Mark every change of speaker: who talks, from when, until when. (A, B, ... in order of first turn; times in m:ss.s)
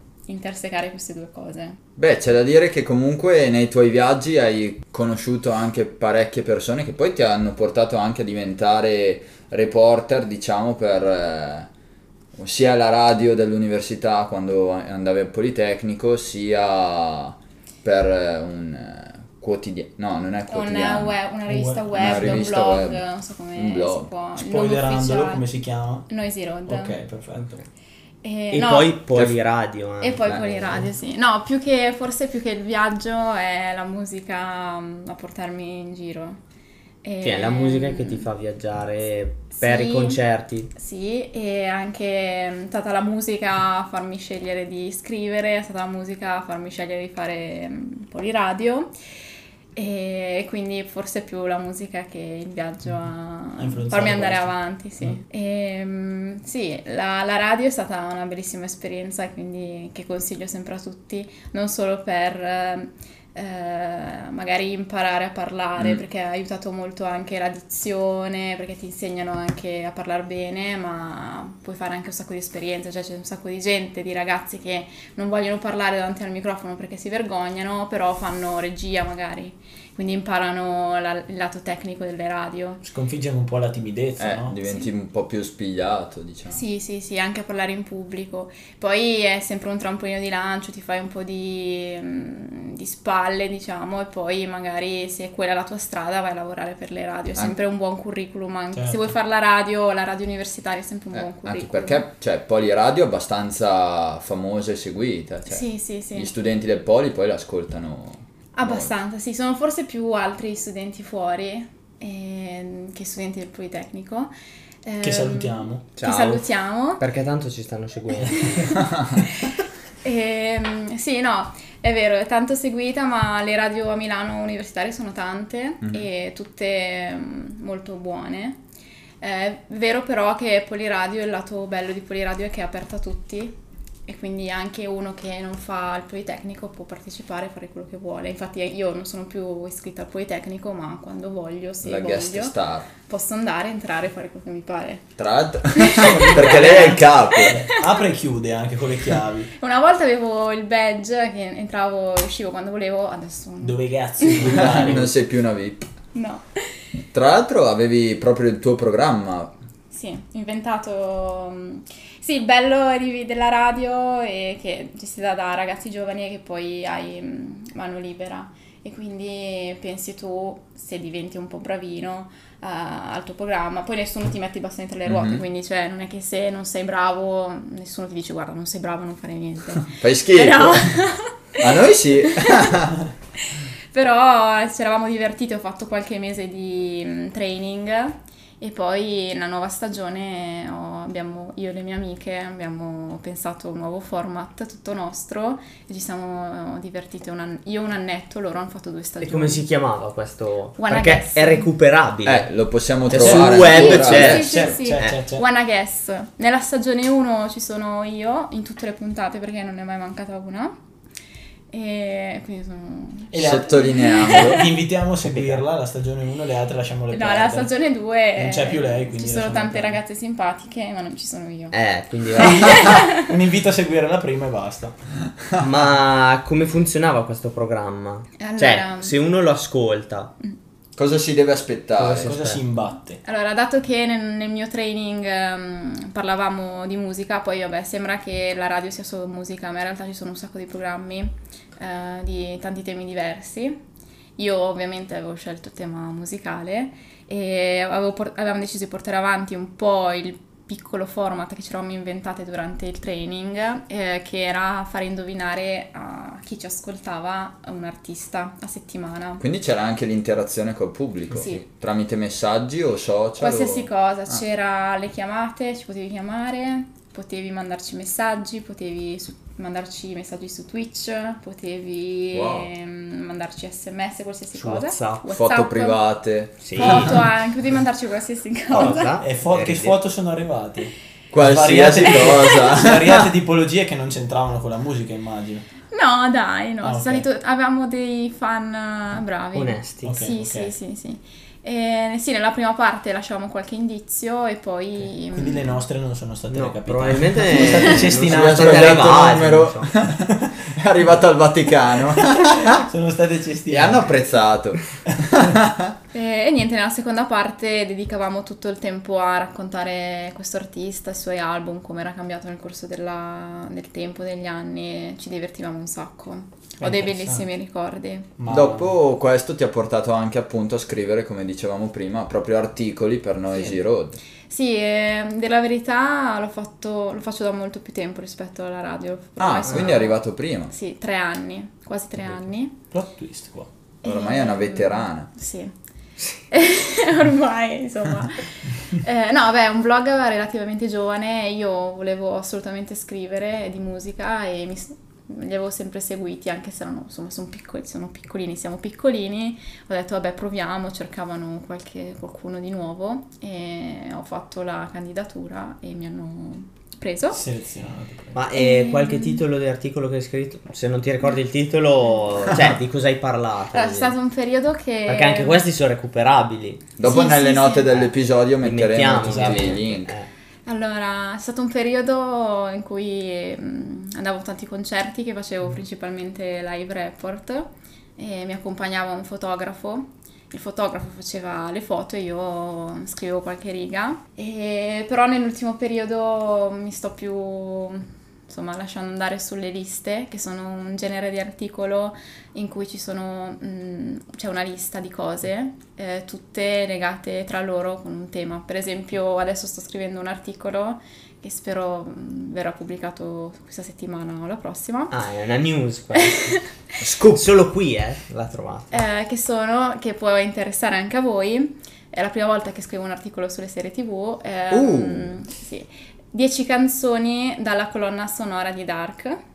0:00.3-0:01.8 A
0:02.0-0:11.7 B
0:12.4-0:21.2 B
0:20.5-0:25.4 A
0:21.5-0:22.5 C
0:22.0-0:23.0 B
0:23.6-0:24.1 B
0:24.4-0:26.1 C
0:26.1-0:27.0 A
0:26.7-0:27.6 C
0:28.2-0:29.0 A
0:28.5-0:30.9 D
0:30.0-0:36.4 A
0:30.3-0:30.8 B
0:37.0-0:38.3 A
0:37.2-0:40.7 D
0:39.5-0:40.2 A
0:40.8-0:48.9 A
0:49.8-1:22.8 A
0:53.6-0:54.6 C
1:05.8-1:06.0 B
1:22.8-1:24.5 C
1:24.2-1:26.6 B
1:24.6-1:24.9 A
1:26.5-1:42.0 A
1:38.8-1:39.0 C
1:41.1-1:48.9 B
1:45.5-1:46.3 A
1:48.6-1:54.3 A
1:54.8-1:57.0 A
1:55.0-1:55.8 C
1:56.0-1:58.8 D
1:58.3-2:08.6 A
2:09.2-2:13.6 A
2:14.1-2:25.1 A
2:21.8-2:22.9 B
2:25.2-2:27.6 B
2:25.7-2:26.6 A
2:25.9-2:29.5 C
2:27.3-2:27.8 A
2:29.6-2:34.9 A
2:33.6-2:35.1 C
2:34.4-2:35.9 B
2:36.1-2:36.4 A
2:37.1-2:39.5 B
2:39.9-3:02.7 A
2:55.1-2:55.4 B
2:59.9-3:00.9 B
3:01.6-3:03.1 B
3:03.4-3:19.6 A
3:19.2-3:22.5 D
3:20.8-3:21.7 A
3:22.2-3:24.7 B
3:23.1-3:25.2 D
3:23.2-3:25.4 C
3:23.4-3:30.8 A
3:31.7-3:34.7 A
3:33.3-3:37.7 C
3:33.4-3:34.7 B
3:35.2-3:35.6 D
3:37.1-3:41.8 A
3:38.4-3:40.0 C
3:41.7-3:43.0 D
3:42.4-3:43.3 A
3:42.7-3:45.0 C
3:45.6-3:50.3 D
3:48.4-3:49.2 A
3:51.0-3:52.3 B
3:52.0-3:52.6 D
3:52.2-3:53.2 C
3:53.2-4:03.8 A
4:04.4-4:19.4 A
4:19.4-4:24.4 B
4:21.4-4:21.6 A
4:23.4-4:36.0 A
4:32.3-4:32.7 B
4:34.6-4:35.2 D
4:35.3-4:37.1 B
4:36.6-4:37.2 D
4:36.7-4:39.2 A
4:38.7-4:40.0 D
4:38.8-4:45.7 C
4:41.3-4:43.3 B
4:45.9-4:55.8 A
4:46.8-4:47.2 C
4:49.5-4:50.2 D
4:50.0-4:50.7 C
4:55.3-4:59.3 C
4:56.5-4:59.9 D
4:58.1-5:02.8 B
5:02.2-5:04.2 C
5:03.7-5:06.0 B
5:06.1-5:18.3 A
5:16.8-5:17.5 C
5:18.4-5:18.9 C
5:18.5-5:24.2 B
5:24.5-5:32.7 A
5:29.4-5:30.7 B
5:32.9-5:33.7 C
5:34.0-5:35.7 A
5:34.0-5:35.3 B
5:36.5-5:57.4 A
5:57.3-5:58.4 C
5:58.4-6:04.2 D
5:58.5-5:59.4 A
6:03.7-6:05.6 A
6:05.1-6:06.8 D
6:07.0-6:10.2 B
6:07.0-6:08.0 A
6:08.6-6:10.3 D
6:09.3-6:09.6 C
6:10.7-6:45.1 A
6:45.1-6:46.6 D
6:46.2-6:46.7 A
6:47.0-6:47.5 B
6:47.3-6:49.0 D
6:48.9-6:59.4 A
6:54.7-6:55.2 B